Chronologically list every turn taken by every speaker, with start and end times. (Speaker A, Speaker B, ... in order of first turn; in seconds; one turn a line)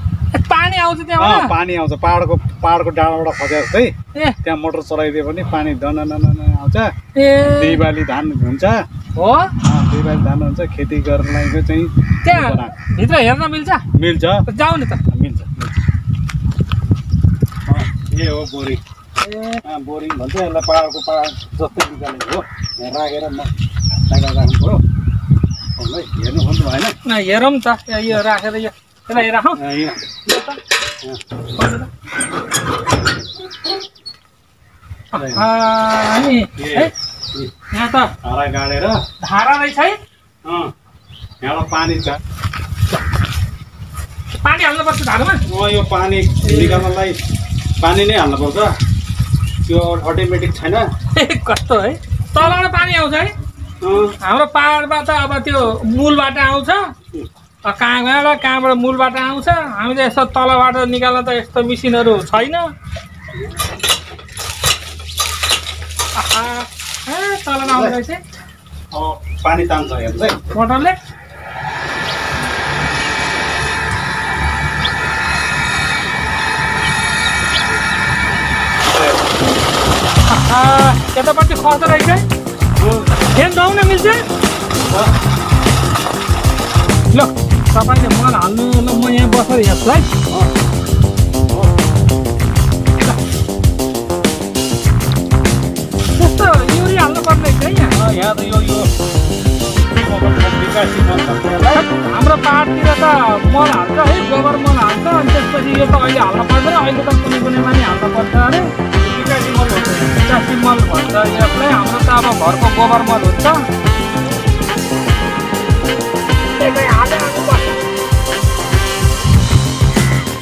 Speaker A: 0.3-1.6
Speaker B: 1.1-8.8
Speaker A: 7.2-7.8
Speaker A: 9.2-9.5
Speaker B: 9.6-12.7
Speaker A: 12.2-13.8
Speaker B: 13.9-14.4
Speaker A: 14.5-15.0
Speaker B: 15.1-15.8
Speaker B: 17.6-18.8
Speaker A: 19.2-19.6
Speaker B: 19.6-23.5
Speaker B: 24.0-24.8
Speaker B: 25.8-26.9
Speaker A: 27.1-29.6
Speaker B: 29.5-30.1
Speaker A: 30.3-30.6
Speaker A: 31.6-31.9
Speaker A: 35.1-36.9
Speaker B: 35.1-35.5
Speaker B: 36.6-37.5
Speaker A: 37.7-38.1
Speaker B: 38.2-39.0
Speaker A: 39.2-40.0
Speaker B: 40.4-40.7
Speaker B: 41.4-42.2
Speaker A: 44.4-45.4
Speaker B: 45.5-47.2
Speaker A: 46.4-46.9
Speaker B: 47.8-48.7
Speaker B: 49.6-50.9
Speaker A: 51.1-53.3
Speaker B: 53.8-54.1
Speaker A: 54.2-56.9
Speaker A: 57.6-62.7
Speaker A: 66.2-68.2
Speaker B: 67.6-68.0
Speaker B: 68.9-70.4
Speaker A: 70.5-71.0
Speaker B: 78.8-79.2
Speaker A: 80.3-82.2
Speaker B: 82.8-83.1
Speaker A: 83.3-84.2
Speaker B: 84.8-85.1
Speaker A: 87.1-90.1
Speaker A: 96.2-97.9
Speaker B: 97.9-98.9
Speaker B: 99.7-101.9
Speaker A: 101.7-108.7
Speaker B: 109.0-110.2
Speaker A: 110.1-113.6
Speaker A: 116.6-117.8